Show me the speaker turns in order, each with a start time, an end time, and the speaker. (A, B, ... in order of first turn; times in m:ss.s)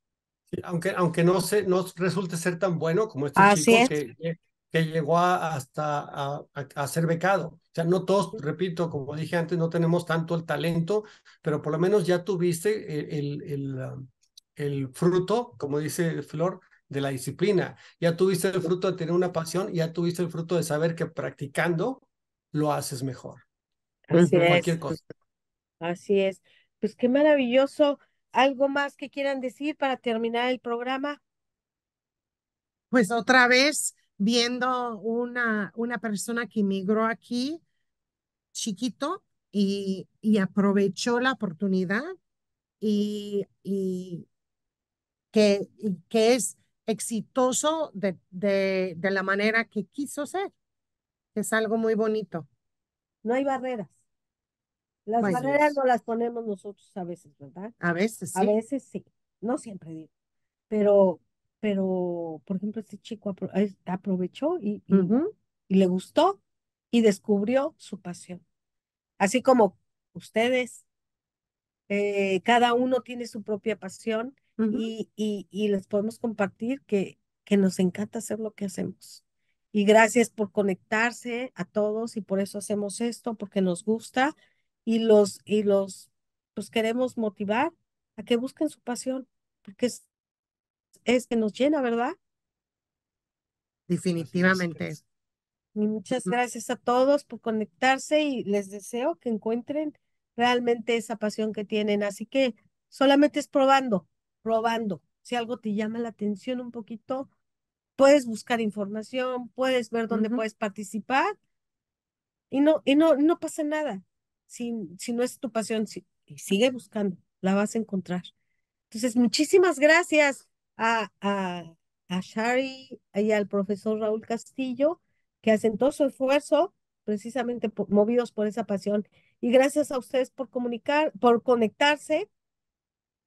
0:00.5-0:14.0 A
0:03.4-0:03.9 B
0:14.6-0:23.4 A
0:24.1-0:24.8 B
0:24.2-0:25.0 A
0:25.8-0:31.2 B
0:32.9-0:37.6 C
0:38.5-0:42.0 C
0:42.8-0:44.3 C
0:45.3-0:50.5 C
0:51.3-0:52.5 C
0:53.2-0:53.9 B
0:55.0-0:57.7 B
0:55.2-0:55.8 C
0:57.8-0:58.6 C
0:58.3-1:00.1 B
1:00.7-1:05.2 B
1:04.9-1:05.3 C
1:05.7-1:06.4 B
1:06.9-1:08.4 B
1:09.2-1:10.8 B
1:11.9-1:19.2 B
1:14.6-1:14.9 C
1:19.7-1:30.0 B
1:31.0-1:32.1 B
1:33.9-1:35.0 C
1:34.1-1:35.0 A
1:35.7-1:47.3 B
1:48.0-1:51.3 B
1:50.1-1:50.4 C
1:52.5-1:58.3 B
1:58.9-2:12.3 B